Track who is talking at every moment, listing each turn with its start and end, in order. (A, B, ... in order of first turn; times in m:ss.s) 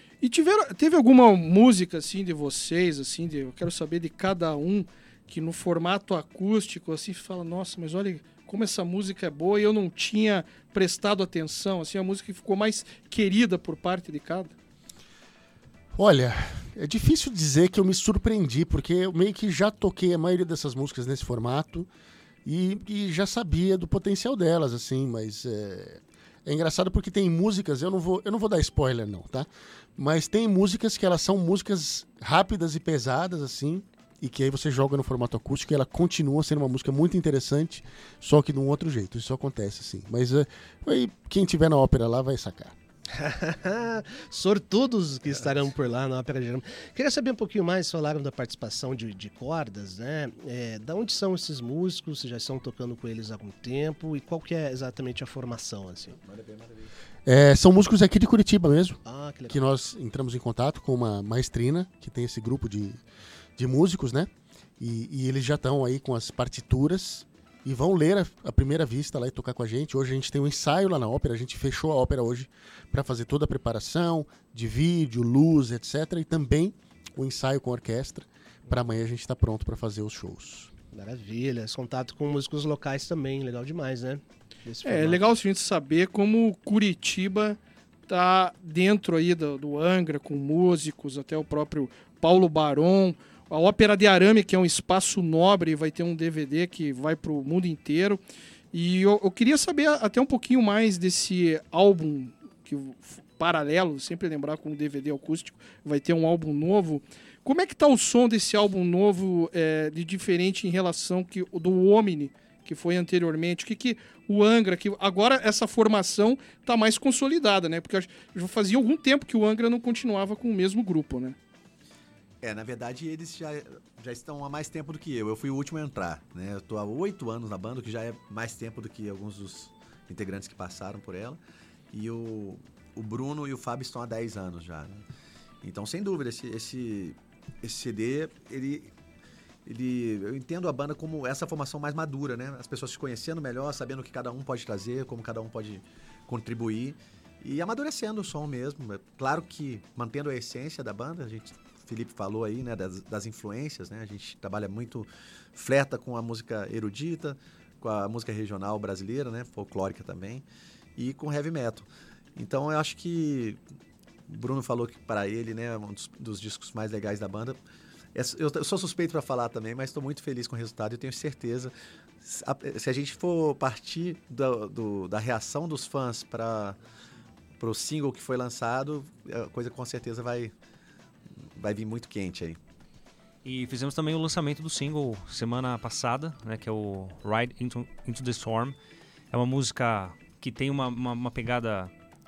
0:00.2-0:14.5 A
0:15.9-0:21.9 B
0:22.4-0:42.7 B
0:43.1-0:56.2 C
0:56.2-0:56.9 D
0:57.2-1:03.0 B
0:59.0-0:59.6 C
1:03.6-1:04.3 B
1:04.8-1:20.7 B
1:20.9-1:25.2 C
1:24.8-1:38.2 A
1:38.7-2:01.4 A
2:02.4-2:11.4 D
2:11.9-2:15.0 D
2:15.6-2:18.9 D
2:19.6-2:40.4 D
2:41.0-2:43.6 D
2:44.3-2:47.6 D
2:48.1-2:56.8 D
2:57.6-3:00.5 D
3:01.6-3:02.6 D
3:03.4-3:08.7 E
3:09.3-3:11.9 E